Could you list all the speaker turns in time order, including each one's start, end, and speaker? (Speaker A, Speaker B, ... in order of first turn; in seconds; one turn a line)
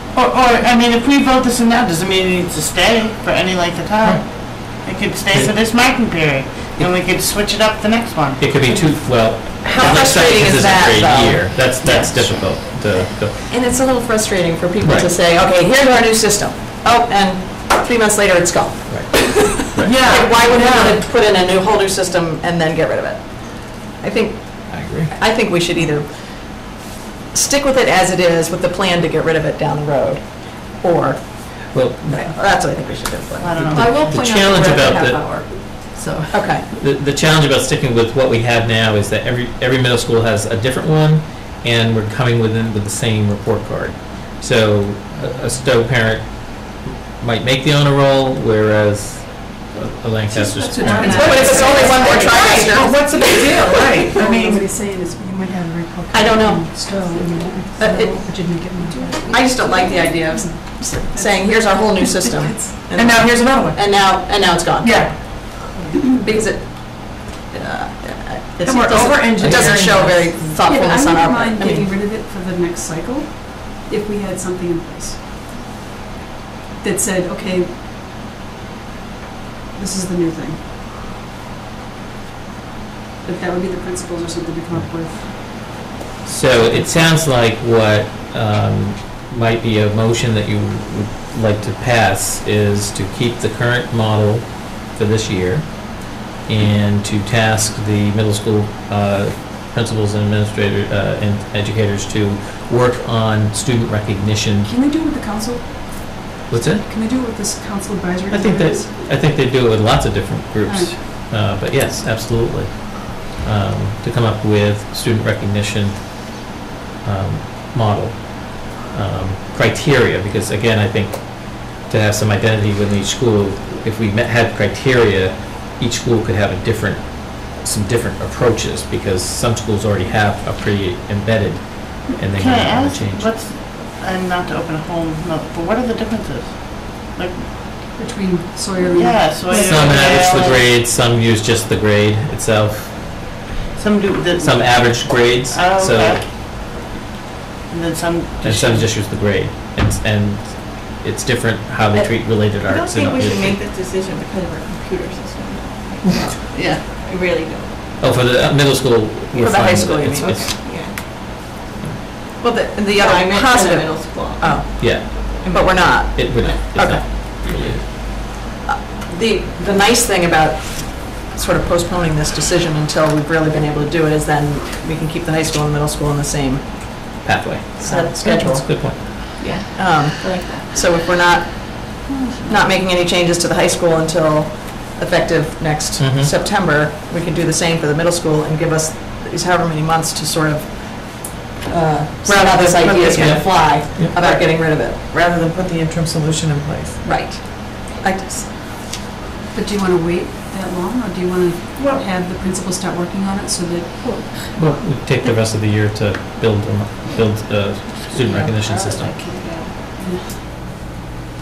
Speaker A: 0.1-9.2
Speaker B: 8.4-13.5
Speaker C: 9.7-11.5
Speaker A: 9.8-10.1
Speaker A: 11.8-12.4
Speaker C: 13.5-26.7
Speaker B: 14.8-15.1
Speaker B: 18.9-19.2
Speaker B: 19.7-20.0
Speaker D: 19.8-21.0
Speaker B: 24.7-25.2
Speaker C: 27.3-34.0
Speaker B: 31.7-32.4
Speaker A: 33.4-34.2
Speaker E: 33.7-36.5
Speaker B: 34.0-35.2
Speaker C: 36.3-36.7
Speaker B: 36.7-51.9
Speaker F: 50.3-52.6
Speaker D: 51.0-54.6
Speaker C: 51.1-53.2
Speaker F: 54.0-62.9
Speaker C: 56.1-57.1
Speaker C: 57.8-58.7
Speaker E: 59.0-59.6
Speaker C: 59.3-71.9
Speaker D: 62.9-63.8
Speaker D: 64.8-65.1
Speaker D: 68.6-70.3
Speaker F: 68.8-75.2
Speaker F: 76.8-77.8
Speaker F: 79.7-80.6
Speaker F: 83.2-85.8
Speaker B: 86.2-104.7
Speaker F: 86.5-86.9
Speaker F: 104.6-109.0
Speaker B: 106.5-106.8
Speaker B: 108.3-116.3
Speaker F: 110.6-111.1
Speaker B: 117.0-133.3
Speaker A: 132.3-137.5
Speaker F: 137.9-140.2
Speaker A: 138.8-140.7
Speaker B: 139.5-143.0
Speaker A: 143.7-146.2
Speaker B: 144.4-146.2
Speaker A: 147.7-148.9
Speaker B: 148.4-153.6
Speaker E: 151.9-157.8
Speaker C: 156.2-156.8
Speaker B: 158.0-160.5
Speaker C: 159.3-160.4
Speaker E: 160.2-161.0
Speaker C: 162.4-167.0
Speaker E: 162.8-166.7
Speaker B: 164.7-165.1
Speaker B: 166.1-167.8
Speaker C: 168.7-177.1
Speaker B: 177.2-179.2
Speaker C: 177.8-179.2
Speaker E: 179.4-180.9
Speaker C: 179.8-195.0
Speaker E: 182.1-182.6
Speaker B: 186.0-186.3
Speaker D: 192.2-197.0
Speaker B: 193.2-194.1
Speaker C: 197.0-198.6
Speaker F: 199.5-204.7
Speaker B: 204.5-209.2
Speaker E: 208.2-209.8
Speaker F: 209.9-210.4